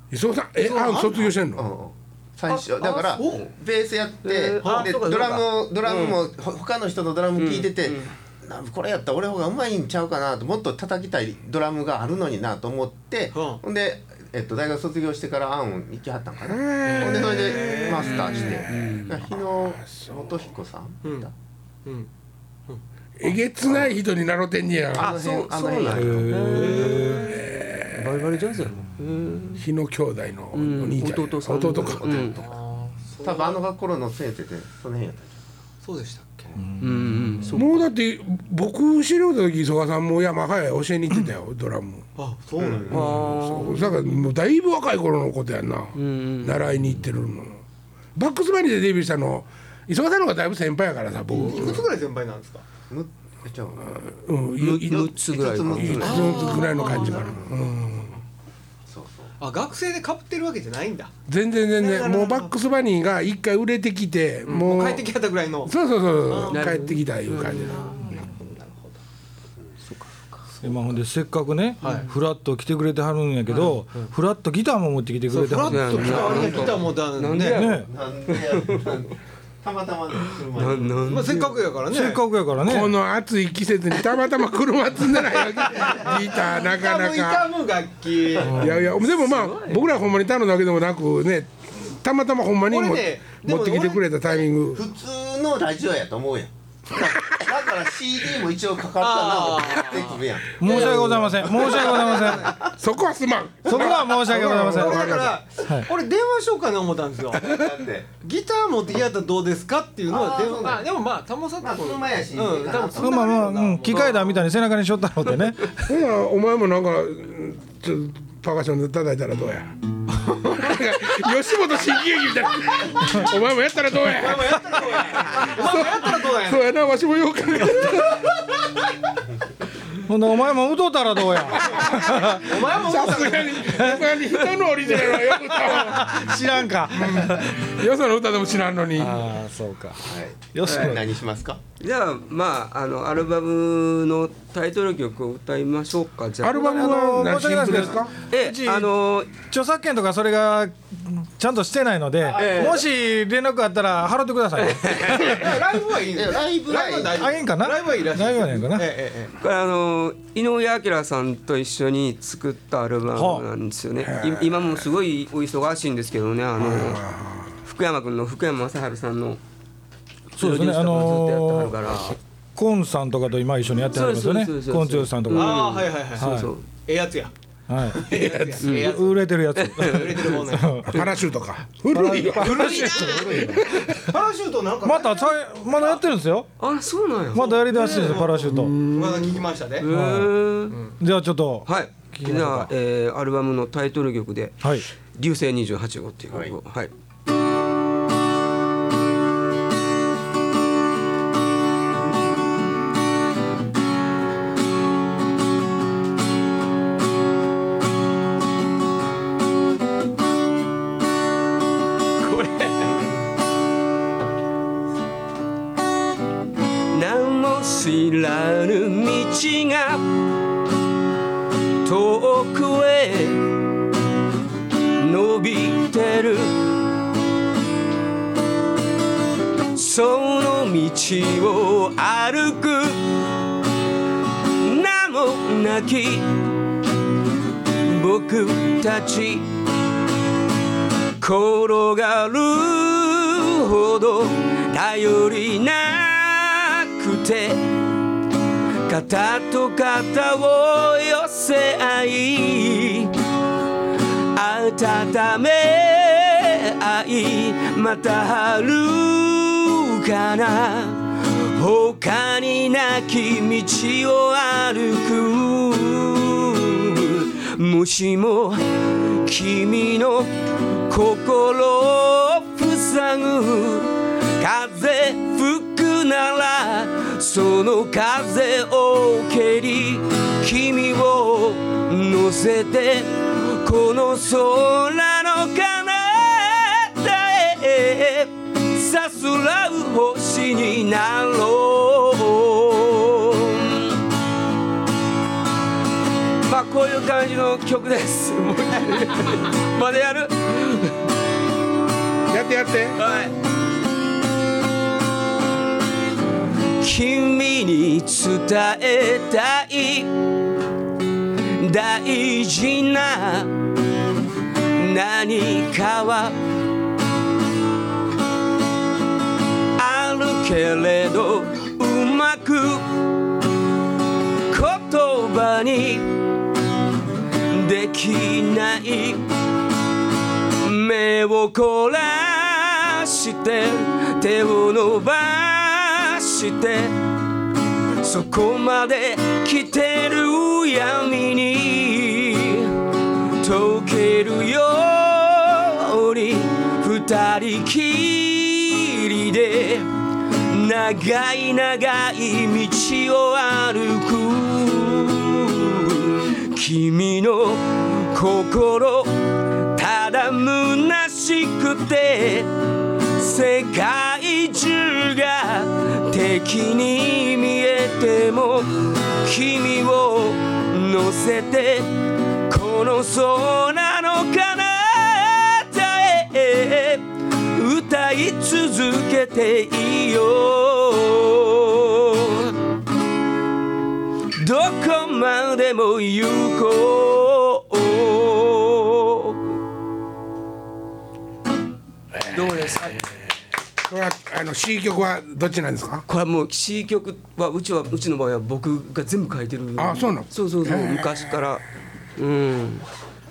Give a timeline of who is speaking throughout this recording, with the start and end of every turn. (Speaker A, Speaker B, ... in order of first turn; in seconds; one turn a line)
Speaker A: 0.1-1.6
Speaker B: 0.6-1.4
Speaker C: 1.6-21.3
Speaker B: 2.5-3.5
Speaker D: 3.2-3.5
Speaker D: 4.2-6.2
Speaker B: 4.6-4.9
Speaker D: 7.3-8.1
Speaker B: 13.3-13.6
Speaker A: 16.4-17.8
Speaker B: 16.9-18.6
Speaker D: 17.9-19.2
Speaker A: 18.4-20.3
Speaker B: 21.0-21.3
Speaker B: 21.8-22.1
Speaker A: 23.2-25.1
Speaker C: 23.6-23.9
Speaker C: 24.9-26.5
Speaker D: 25.0-27.3
Speaker E: 25.9-27.3
Speaker B: 26.5-27.5
Speaker A: 27.2-28.4
Speaker D: 27.9-29.6
Speaker A: 29.6-32.3
Speaker D: 30.5-32.4
Speaker C: 31.7-32.6
Speaker B: 32.4-33.6
Speaker C: 33.2-35.4
Speaker B: 35.8-36.5
Speaker E: 36.6-37.6
Speaker D: 36.8-37.9
Speaker A: 37.5-42.0
Speaker B: 42.1-43.2
Speaker C: 42.6-43.2
Speaker D: 42.9-44.2
Speaker A: 42.9-47.6
Speaker D: 45.9-47.0
Speaker A: 48.1-51.9
Speaker B: 51.3-52.6
Speaker C: 52.9-54.0
Speaker A: 53.9-55.1
Speaker D: 54.6-56.8
Speaker C: 54.9-57.7
Speaker A: 55.7-58.2
Speaker B: 56.0-57.4
Speaker C: 58.9-59.3
Speaker B: 59.4-61.1
Speaker A: 61.3-65.0
Speaker B: 61.8-62.5
Speaker B: 64.4-65.7
Speaker A: 65.6-68.2
Speaker B: 66.3-66.7
Speaker D: 66.5-68.5
Speaker B: 67.5-68.4
Speaker D: 69.8-70.4
Speaker B: 70.6-70.9
Speaker E: 70.6-76.6
Speaker B: 71.8-72.1
Speaker B: 73.5-74.1
Speaker B: 75.3-77.7
Speaker D: 75.6-79.0
Speaker C: 76.3-76.6
Speaker E: 77.4-77.9
Speaker C: 77.9-81.1
Speaker D: 80.5-81.6
Speaker B: 81.0-82.2
Speaker E: 81.9-83.0
Speaker A: 82.6-87.5
Speaker B: 85.4-88.8
Speaker A: 88.4-94.8
Speaker D: 88.5-89.9
Speaker B: 92.7-94.2
Speaker C: 94.3-102.6
Speaker A: 97.0-97.5
Speaker B: 99.0-102.6
Speaker E: 100.6-102.6
Speaker A: 102.7-105.4
Speaker E: 103.7-105.9
Speaker B: 104.0-107.5
Speaker C: 107.3-108.1
Speaker B: 108.2-114.4
Speaker C: 110.1-110.8
Speaker C: 111.6-113.4
Speaker E: 113.0-115.9
Speaker D: 113.9-114.2
Speaker A: 115.8-128.4
Speaker B: 124.0-126.7
Speaker E: 130.1-132.5
Speaker A: 131.5-136.3
Speaker B: 132.1-134.0
Speaker E: 135.6-137.6
Speaker A: 136.9-139.3
Speaker E: 139.0-140.0
Speaker C: 140.0-141.6
Speaker E: 140.5-141.1
Speaker D: 141.8-146.8
Speaker A: 146.4-148.1
Speaker E: 146.5-155.3
Speaker D: 148.3-149.3
Speaker D: 152.3-152.8
Speaker C: 152.3-152.7
Speaker D: 154.6-155.5
Speaker B: 154.9-159.3
Speaker C: 156.1-157.3
Speaker E: 157.1-158.9
Speaker D: 159.4-167.0
Speaker E: 163.1-163.4
Speaker A: 164.0-164.8
Speaker A: 166.6-167.6
Speaker D: 167.6-169.4
Speaker D: 170.3-172.2
Speaker E: 170.4-171.7
Speaker E: 172.6-176.5
Speaker D: 173.9-176.7
Speaker B: 175.3-179.3
Speaker E: 177.7-178.0
Speaker A: 178.0-178.8
Speaker D: 178.6-178.9
Speaker E: 178.8-181.0
Speaker D: 179.5-180.3
Speaker B: 179.8-180.8
Speaker A: 180.8-184.1
Speaker E: 181.9-184.0
Speaker B: 182.6-186.0
Speaker E: 184.8-186.5
Speaker D: 186.6-190.8
Speaker E: 187.3-188.8
Speaker B: 187.3-189.9
Speaker E: 189.8-190.3
Speaker E: 191.0-192.7
Speaker D: 191.7-196.9
Speaker C: 196.3-196.5
Speaker D: 212.2-212.9
Speaker D: 216.9-220.1
Speaker D: 221.8-223.6
Speaker D: 224.9-226.7
Speaker D: 229.7-233.2
Speaker D: 234.5-236.5
Speaker D: 237.7-239.5
Speaker D: 241.2-247.7
Speaker D: 248.9-253.2
Speaker D: 254.3-294.0
Speaker D: 296.4-300.9
Speaker A: 302.3-303.0
Speaker D: 303.0-303.3
Speaker D: 306.8-310.1
Speaker D: 311.6-313.6
Speaker D: 314.7-316.4
Speaker D: 319.8-322.9
Speaker D: 324.5-326.1
Speaker D: 327.4-329.2
Speaker D: 330.6-337.0
Speaker D: 338.0-342.8
Speaker D: 343.4-362.5
Speaker D: 363.0-382.6
Speaker D: 384.3-389.5
Speaker A: 392.1-393.1
Speaker D: 392.3-393.0
Speaker A: 393.8-396.0
Speaker D: 396.1-401.6
Speaker A: 399.8-401.3
Speaker D: 402.1-402.9